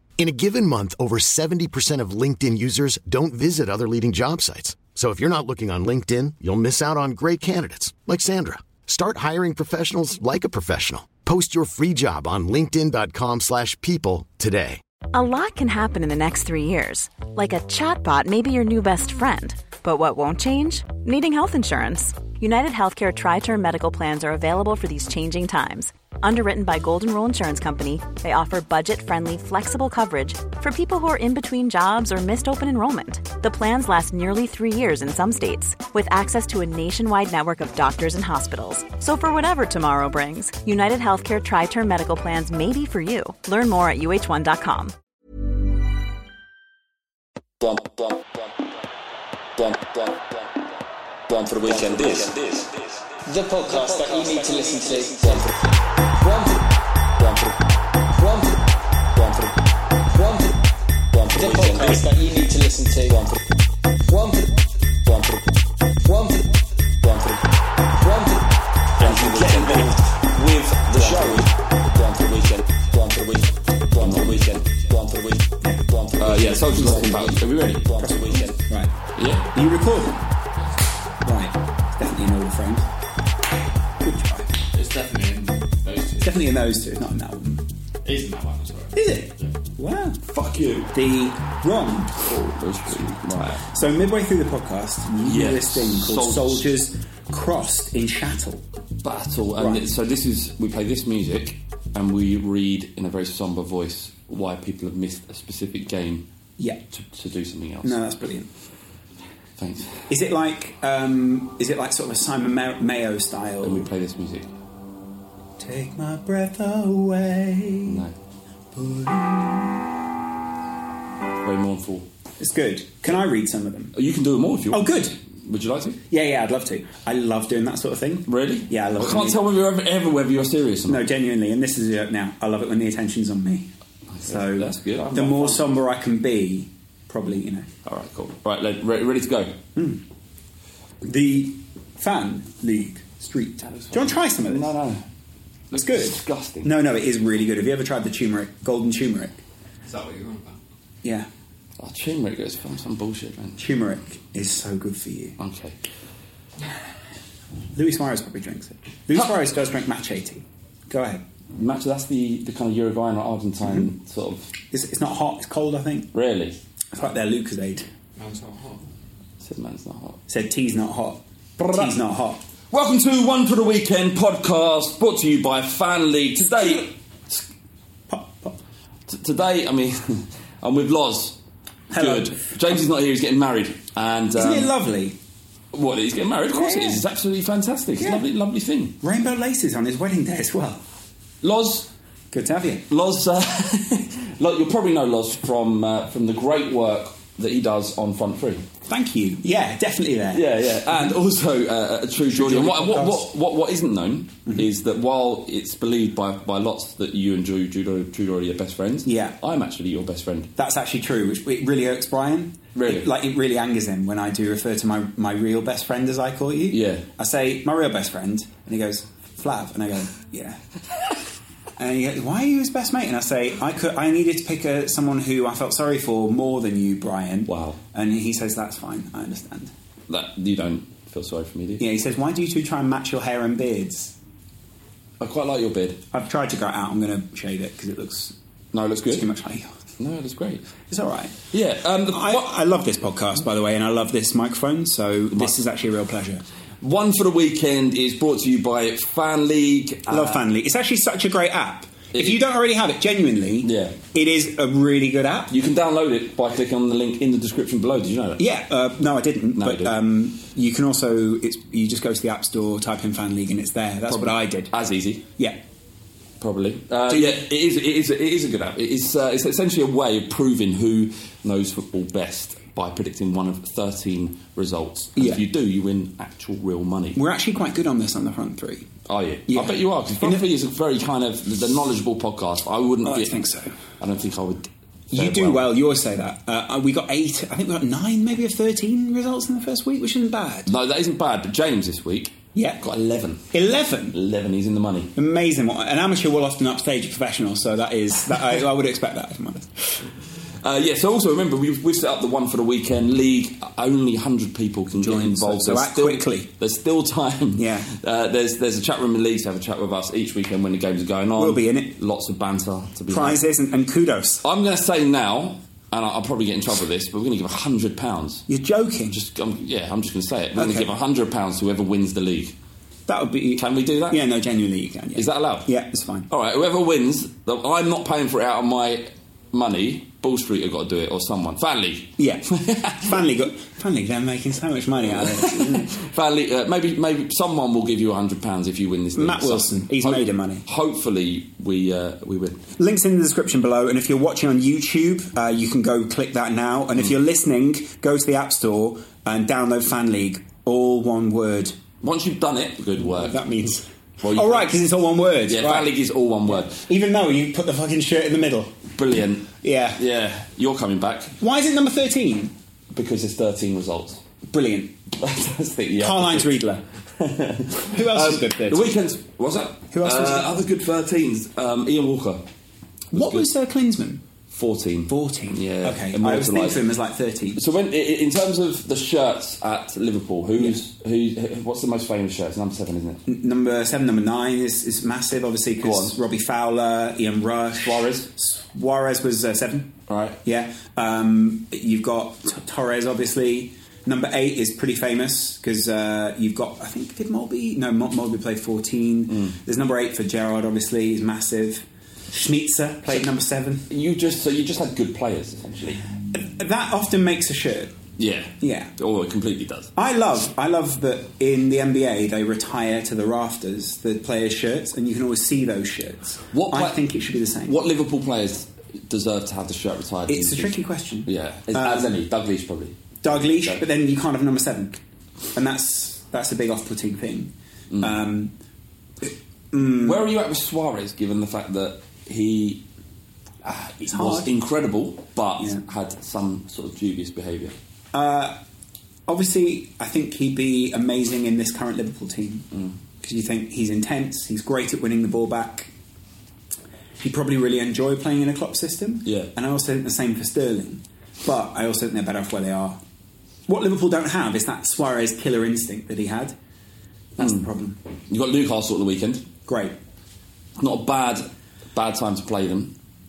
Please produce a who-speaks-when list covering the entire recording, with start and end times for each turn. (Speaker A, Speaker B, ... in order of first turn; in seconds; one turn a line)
Speaker A: 0.2-14.8
Speaker B: 15.1-44.9
Speaker C: 51.3-52.7
Speaker D: 53.3-55.6
Speaker D: 56.2-56.6
Speaker C: 61.1-62.0
Speaker D: 61.3-63.4
Speaker D: 66.0-66.5
Speaker D: 68.0-68.4
Speaker C: 69.0-71.5
Speaker D: 69.0-69.8
Speaker D: 70.9-71.4
Speaker C: 73.9-75.2
Speaker C: 76.2-78.5
Speaker E: 78.0-78.9
Speaker C: 79.1-79.5
Speaker E: 79.5-80.2
Speaker E: 81.2-82.9
Speaker E: 84.0-84.5
Speaker C: 84.7-86.2
Speaker E: 86.2-87.6
Speaker C: 88.0-88.9
Speaker E: 88.9-90.2
Speaker C: 90.3-90.9
Speaker E: 90.9-98.6
Speaker C: 92.5-93.6
Speaker C: 95.2-96.7
Speaker C: 99.0-106.3
Speaker E: 99.6-99.9
Speaker C: 106.9-108.0
Speaker E: 107.8-108.5
Speaker C: 109.6-110.1
Speaker E: 110.1-113.9
Speaker C: 113.6-114.5
Speaker E: 115.6-118.0
Speaker C: 117.9-118.1
Speaker E: 118.7-119.8
Speaker C: 121.4-122.0
Speaker E: 122.4-123.9
Speaker C: 123.9-124.9
Speaker E: 124.7-125.2
Speaker C: 125.5-126.0
Speaker E: 126.1-129.4
Speaker C: 128.3-131.1
Speaker E: 130.9-133.7
Speaker C: 134.1-135.7
Speaker E: 134.2-137.7
Speaker C: 137.8-139.6
Speaker E: 139.7-140.0
Speaker E: 141.0-144.7
Speaker C: 143.7-145.0
Speaker C: 145.7-146.7
Speaker E: 145.7-149.4
Speaker C: 151.8-153.6
Speaker E: 153.6-155.3
Speaker C: 155.4-155.8
Speaker E: 157.7-161.2
Speaker C: 161.6-164.5
Speaker E: 164.7-166.1
Speaker C: 166.1-166.5
Speaker E: 166.9-167.9
Speaker C: 169.4-170.2
Speaker E: 170.3-172.4
Speaker C: 171.6-171.9
Speaker C: 172.7-176.9
Speaker E: 176.4-176.8
Speaker E: 178.1-178.6
Speaker C: 179.1-181.4
Speaker E: 181.9-182.8
Speaker C: 181.9-184.7
Speaker E: 184.3-185.2
Speaker C: 185.7-189.0
Speaker E: 186.5-187.0
Speaker E: 188.0-188.2
Speaker E: 189.0-190.8
Speaker C: 191.4-191.9
Speaker E: 192.3-192.8
Speaker C: 192.9-198.6
Speaker E: 198.9-200.4
Speaker C: 200.3-210.5
Speaker E: 202.3-203.3
Speaker E: 209.1-209.3
Speaker E: 210.6-220.6
Speaker C: 212.7-213.1
Speaker C: 216.7-217.1
Speaker E: 221.8-229.7
Speaker C: 227.5-227.8
Speaker C: 230.1-231.8
Speaker E: 231.8-234.1
Speaker C: 235.2-236.0
Speaker E: 236.1-238.3
Speaker C: 238.7-239.3
Speaker E: 239.1-239.7
Speaker C: 240.0-240.7
Speaker E: 240.9-241.4
Speaker C: 241.5-242.5
Speaker E: 242.1-246.4
Speaker C: 246.8-250.4
Speaker E: 250.1-255.5
Speaker C: 253.6-253.9
Speaker C: 255.5-258.4
Speaker E: 258.4-264.7
Speaker C: 259.6-259.9
Speaker C: 264.1-265.2
Speaker C: 266.4-277.2
Speaker E: 267.1-267.4
Speaker E: 275.1-275.4
Speaker E: 277.1-278.9
Speaker C: 279.1-283.4
Speaker E: 279.5-280.4
Speaker E: 283.0-283.7
Speaker C: 284.0-285.6
Speaker E: 285.1-290.7
Speaker C: 290.6-293.5
Speaker E: 292.5-292.8
Speaker E: 293.5-294.1
Speaker C: 294.1-295.1
Speaker E: 295.1-299.9
Speaker C: 300.6-313.4
Speaker E: 305.0-306.5
Speaker E: 307.6-307.9
Speaker E: 311.4-311.9
Speaker E: 313.1-314.4
Speaker C: 314.4-318.4
Speaker E: 318.5-319.2
Speaker C: 319.1-322.5
Speaker E: 320.6-320.9
Speaker E: 323.1-326.3
Speaker C: 323.6-324.2
Speaker C: 325.1-325.7
Speaker C: 326.3-333.2
Speaker E: 332.2-335.9
Speaker C: 335.1-342.6
Speaker E: 339.1-340.6
Speaker E: 342.8-351.8
Speaker C: 352.0-353.4
Speaker E: 353.0-355.9
Speaker C: 354.2-354.7
Speaker C: 355.5-356.8
Speaker E: 356.4-358.8
Speaker C: 358.9-361.4
Speaker E: 359.6-360.0
Speaker E: 361.4-362.5
Speaker C: 362.9-364.2
Speaker E: 364.5-365.0
Speaker C: 365.2-366.5
Speaker E: 366.0-366.8
Speaker C: 367.2-372.4
Speaker E: 367.9-368.9
Speaker E: 369.9-370.5
Speaker E: 373.1-374.2
Speaker C: 373.1-373.5
Speaker C: 374.5-376.8
Speaker E: 375.1-377.6
Speaker C: 377.6-383.2
Speaker E: 383.3-389.9
Speaker C: 385.8-386.1
Speaker C: 387.8-388.3
Speaker C: 390.1-390.4
Speaker E: 390.4-403.9
Speaker C: 399.3-399.6
Speaker C: 403.9-406.0
Speaker E: 406.3-407.9
Speaker C: 408.2-409.9
Speaker E: 408.6-408.9
Speaker E: 409.9-417.8
Speaker C: 416.5-417.0
Speaker C: 417.6-423.8
Speaker E: 420.3-422.1
Speaker E: 423.2-425.0
Speaker E: 425.5-428.5
Speaker C: 427.9-428.2
Speaker E: 429.2-430.2
Speaker C: 429.9-432.8
Speaker C: 433.6-437.7
Speaker E: 434.0-434.5
Speaker E: 438.1-438.6
Speaker E: 439.3-442.7
Speaker E: 443.2-445.9
Speaker E: 447.2-453.0
Speaker C: 449.2-449.5
Speaker E: 453.7-456.5
Speaker E: 457.4-458.0
Speaker C: 457.4-457.6
Speaker C: 458.3-459.5
Speaker E: 459.7-459.9
Speaker C: 460.8-462.9